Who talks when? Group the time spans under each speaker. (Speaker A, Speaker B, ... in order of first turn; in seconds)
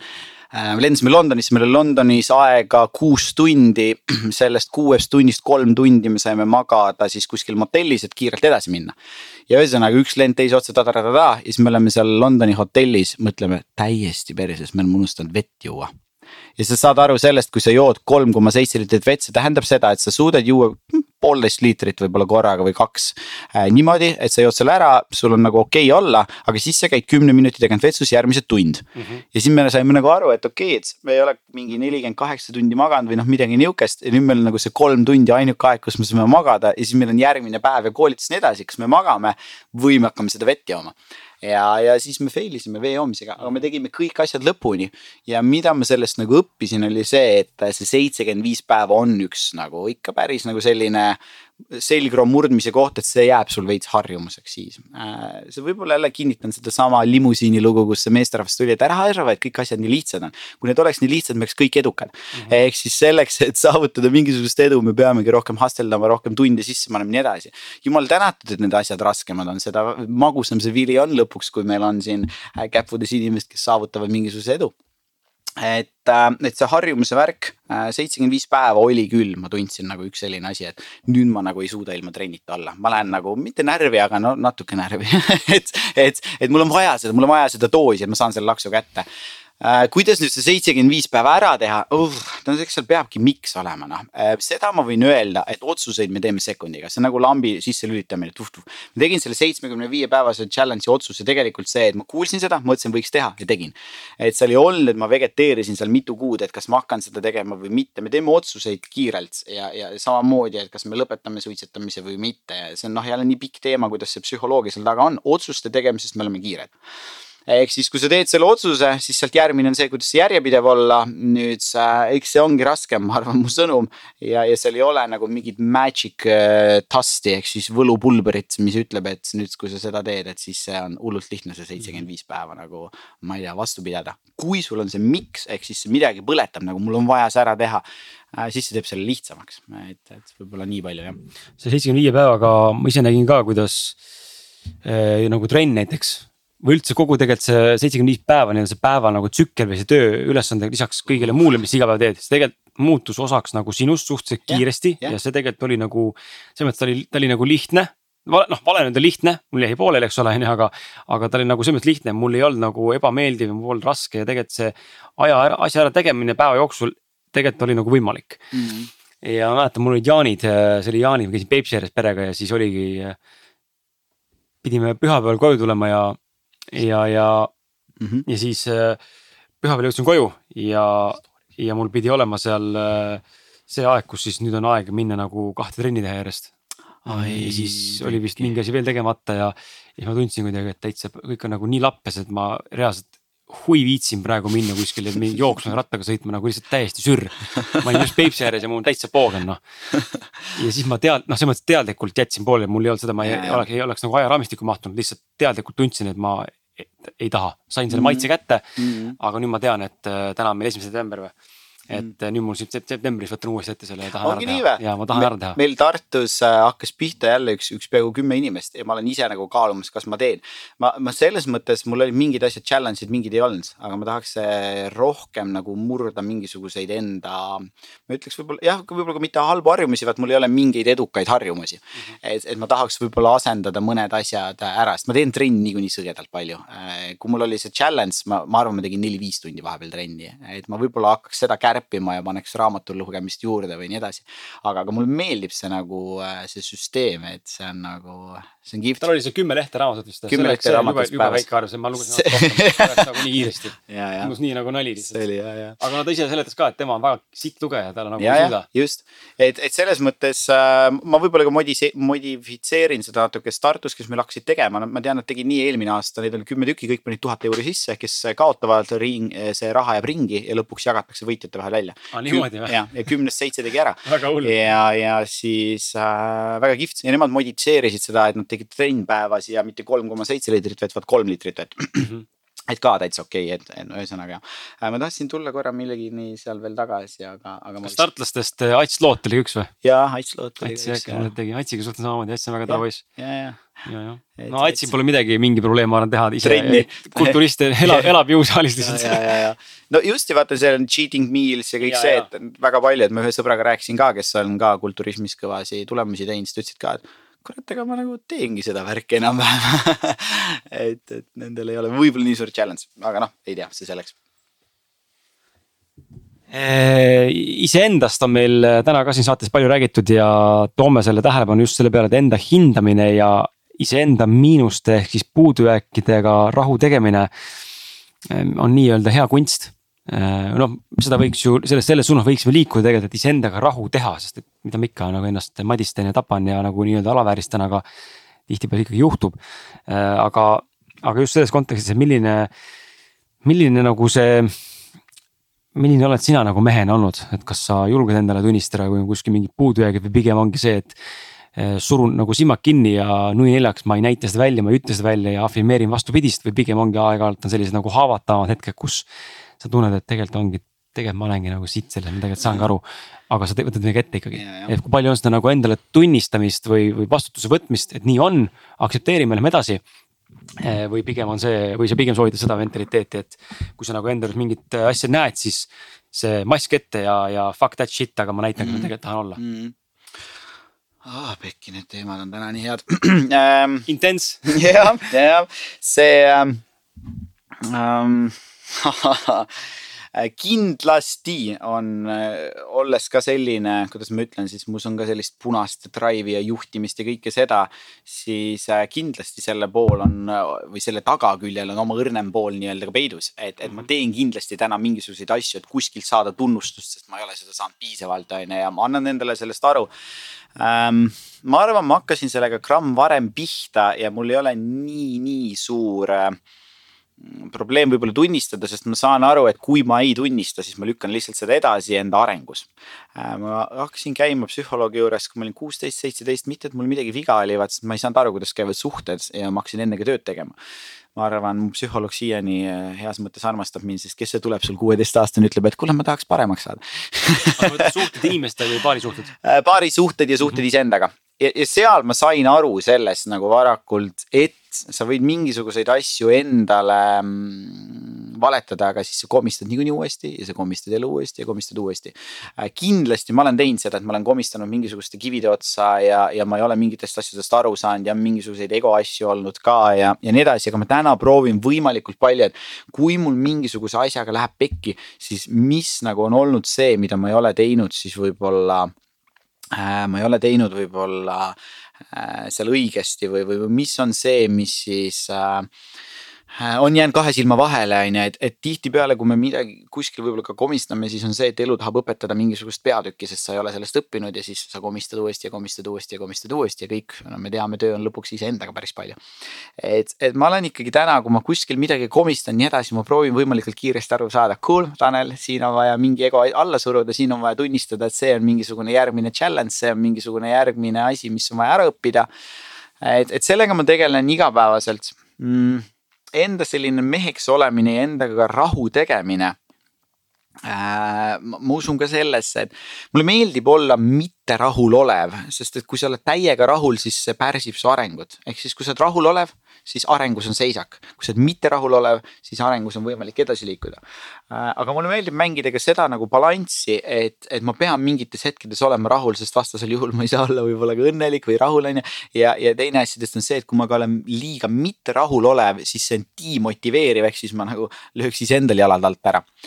Speaker A: 0.5-8.9, 9.5-15.9, 16.6-74.7, 75.6-89.1, 89.6-116.7, 117.5-141.2, 154.5-155.2, 168.5-168.9, 178.0-178.3, 187.1-188.2, 203.2-203.7, 207.9-209.2, 214.2-249.0, 250.3-251.5, 252.1-253.2, 253.9-254.3, 255.1-255.8, 258.2-282.1, 282.7-288.1, 289.8-291.3, 292.7-293.6, 294.4-294.9, 296.4-298.1, 298.8-314.1, 364.4-364.7, 378.6-379.8, 381.0-383.9, 384.5-409.9, 410.6-416.4, 417.2-430.6, 431.1-438.1, 439.4-468.9, 469.7-471.6, 472.1-475.7, 476.5-489.2, 489.8-502.3, 503.0-509.6, 510.6-539.5
Speaker B: 29.0-29.2, 141.6-144.0, 144.8-168.4, 169.2-173.2, 174.6-176.2, 176.7-177.5, 178.3-179.0, 179.6-186.5, 187.1-199.6, 200.5-211.3, 211.9-215.6, 249.0-255.2, 255.8-258.6, 272.1-272.8, 274.1-274.6, 287.8-289.7, 290.6-293.0, 293.9-299.3, 301.8-302.3, 316.5-327.3, 328.3-337.8, 338.5-339.4, 339.9-342.5, 343.4-344.5, 345.8-350.9, 351.6-359.1, 359.6-369.8, 370.6-379.4, 383.9-384.5, 437.6-439.3